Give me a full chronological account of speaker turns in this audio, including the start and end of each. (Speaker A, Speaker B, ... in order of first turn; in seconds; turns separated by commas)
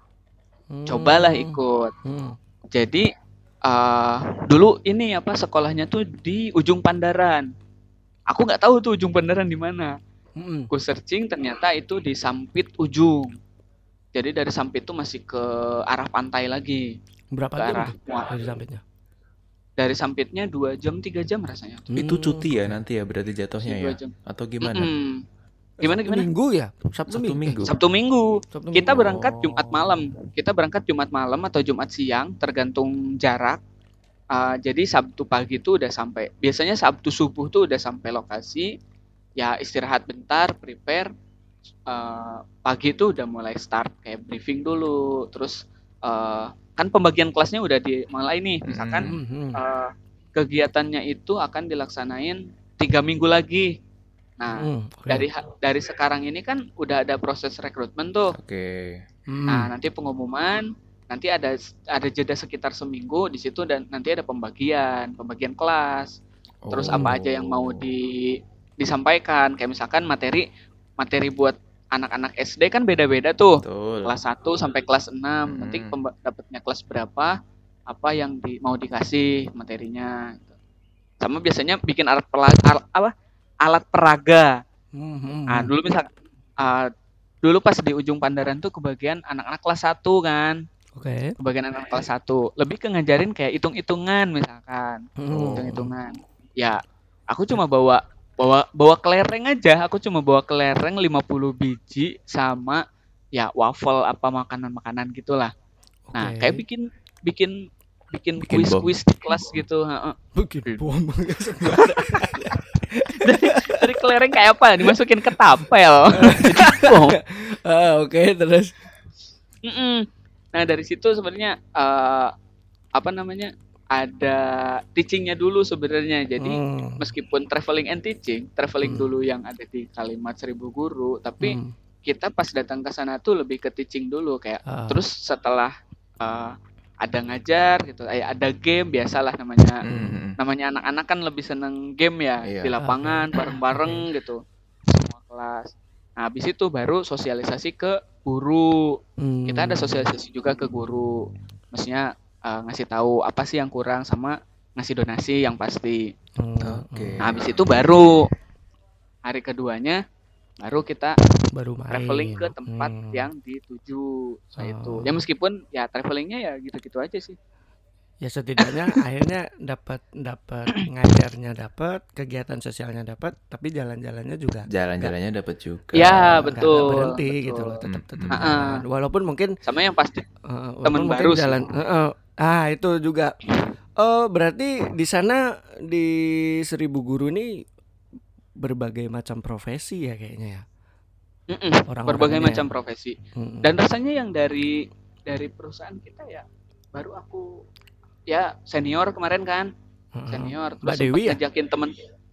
Speaker A: 0.7-2.4, Speaker B: 0.9-1.9, Speaker B: 2.7-3.1, Speaker B: 3.6-7.5, Speaker B: 8.3-9.9, Speaker A: 10.4-10.7, Speaker B: 10.7-13.3, Speaker B: 14.1-16.9, Speaker A: 17.3-18.8, Speaker B: 17.6-18.3, Speaker B: 19.8-21.9, Speaker A: 21.9-22.8, Speaker C: 21.9-24.9, Speaker B: 23.6-25.2, Speaker A: 25.8-27.7, Speaker B: 25.8-26.3, Speaker C: 27.1-27.7, Speaker B: 27.6-33.6, Speaker A: 28.5-29.2, Speaker C: 28.9-29.6, Speaker B: 34.3-38.7, Speaker B: 39.4-41.1, Speaker B: 41.9-53.7, Speaker C: 48.7-49.1, Speaker A: 49.1-49.6, Speaker B: 54.4-58.3, Speaker A: 54.5-55.3, Speaker C: 58.3-59.0, Speaker A: 59.3-59.7, Speaker B: 59.5-66.2, Speaker C: 66.6-67.9, Speaker B: 66.7-70.4, Speaker A: 66.9-67.1, Speaker B: 71.0-77.3, Speaker C: 73.6-74.1, Speaker C: 75.5-76.0, Speaker B: 77.9-80.5, Speaker B: 81.2-84.6, Speaker A: 84.9-85.7, Speaker B: 85.5-86.9, Speaker B: 87.4-90.6, Speaker A: 91.0-91.3, Speaker B: 91.4-96.8, Speaker A: 95.2-95.9, Speaker C: 95.3-95.7, Speaker B: 97.3-105.5, Speaker A: 106.1-106.6, Speaker B: 106.1-107.6, Speaker B: 108.1-110.8, Speaker C: 108.4-108.9, Speaker A: 110.3-114.0, Speaker B: 111.7-112.6, Speaker B: 113.2-117.2, Speaker A: 116.1-118.8, Speaker B: 119.6-122.3, Speaker B: 122.9-139.8, Speaker A: 126.4-127.1, Speaker A: 128.8-129.1, Speaker A: 131.4-131.7, Speaker A: 134.7-135.0, Speaker C: 139.8-140.3, Speaker A: 139.9-140.2, Speaker B: 140.4-156.1, Speaker C: 142.5-142.7, Speaker A: 142.8-144.0, Speaker A: 149.2-150.1, Speaker A: 156.4-157.2, Speaker C: 156.6-158.1, Speaker B: 157.2-158.3, Speaker B: 159.2-160.0, Speaker B: 160.6-161.2, Speaker A: 161.5-163.3, Speaker B: 161.9-167.4, Speaker A: 164.6-165.2, Speaker A: 168.2-175.1, Speaker B: 168.6-169.0, Speaker C: 174.7-176.6, Speaker B: 175.9-178.8, Speaker A: 176.5-179.5, Speaker C: 177.8-178.6, Speaker B: 179.6-180.2, Speaker A: 180.4-187.5, Speaker B: 180.8-181.7, Speaker A: 188.6-190.6, Speaker B: 191.5-197.6, Speaker A: 191.9-192.7, Speaker A: 193.3-193.7, Speaker B: 198.3-199.7, Speaker A: 200.1-201.4, Speaker B: 200.3-201.9